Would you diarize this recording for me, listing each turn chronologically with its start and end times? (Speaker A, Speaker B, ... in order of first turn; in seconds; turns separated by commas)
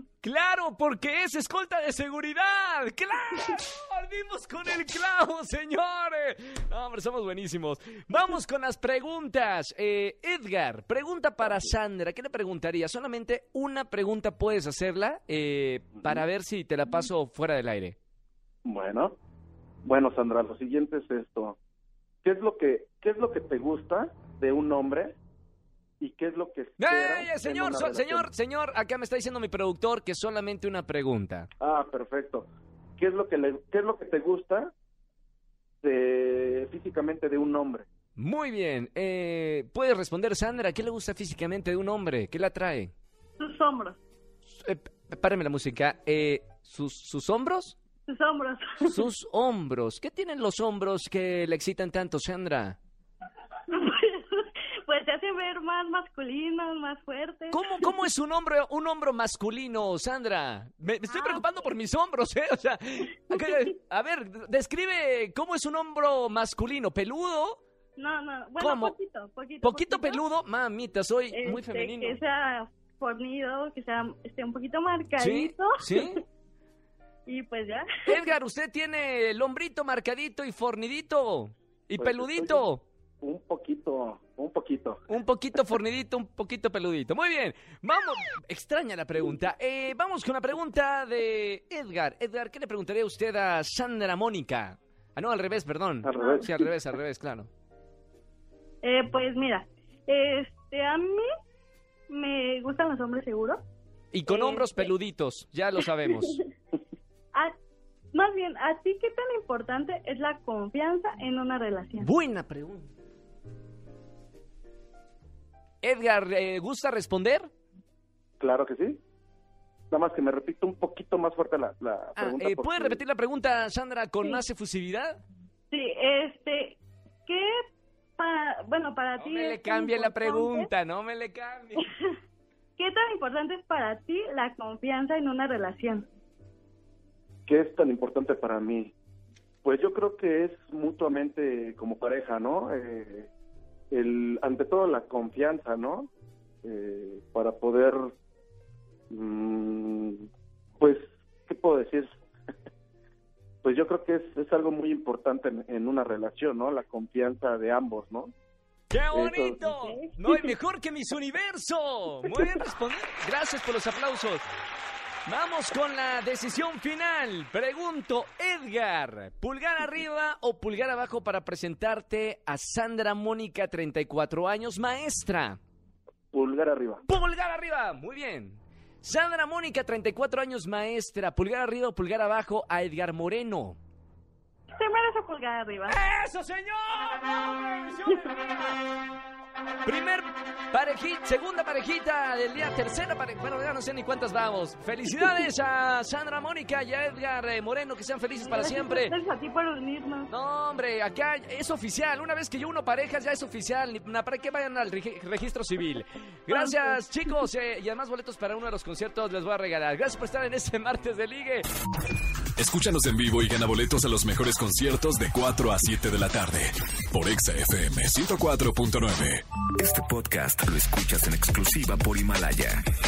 Speaker A: 0.2-17.9, Speaker B: 18.6-19.2, Speaker B: 19.8-21.6, Speaker B: 22.2-25.2, Speaker B: 26.0-28.3, Speaker A: 26.8-31.5, Speaker B: 31.6-34.7, Speaker B: 35.8-37.9, Speaker A: 38.2-42.9, Speaker C: 43.4-44.0, Speaker A: 44.6-47.8, Speaker C: 48.1-49.0, Speaker A: 48.8-52.8, Speaker C: 53.7-57.7, Speaker A: 57.5-67.6, Speaker C: 61.1-61.5, Speaker C: 68.0-70.2, Speaker A: 68.6-68.9, Speaker A: 69.6-72.2, Speaker C: 71.3-76.2, Speaker A: 75.2-76.2, Speaker C: 77.2-78.2, Speaker A: 78.0-82.8, Speaker B: 82.0-82.6, Speaker B: 83.2-85.0, Speaker A: 85.1-97.5, Speaker B: 96.0-96.5, Speaker C: 98.8-101.2, Speaker C: 102.1-103.6, Speaker A: 104.1-106.4, Speaker C: 104.3-104.9, Speaker C: 108.1-112.1, Speaker A: 112.0-112.9, Speaker A: 115.8-117.5, Speaker B: 118.4-119.0, Speaker B: 119.9-123.0, Speaker A: 122.2-125.2, Speaker C: 125.7-127.5, Speaker C: 128.2-130.7, Speaker A: 129.2-131.8, Speaker C: 132.8-136.1, Speaker B: 137.5-138.9, Speaker B: 139.6-143.3, Speaker B: 143.9-146.1, Speaker B: 146.6-148.1, Speaker B: 149.1-150.2, Speaker B: 150.8-152.1, Speaker B: 153.6-158.3, Speaker A: 158.9-164.4, Speaker B: 159.1-159.6, Speaker C: 159.6-160.5, Speaker A: 165.3-175.6, Speaker B: 176.3-177.0, Speaker A: 177.1-183.8, Speaker C: 184.7-186.0, Speaker A: 185.9-188.8, Speaker A: 189.8-199.1, Speaker C: 198.4-200.3, Speaker A: 200.3-211.6, Speaker C: 206.5-207.0, Speaker D: 212.6-219.4, Speaker E: 219.7-222.8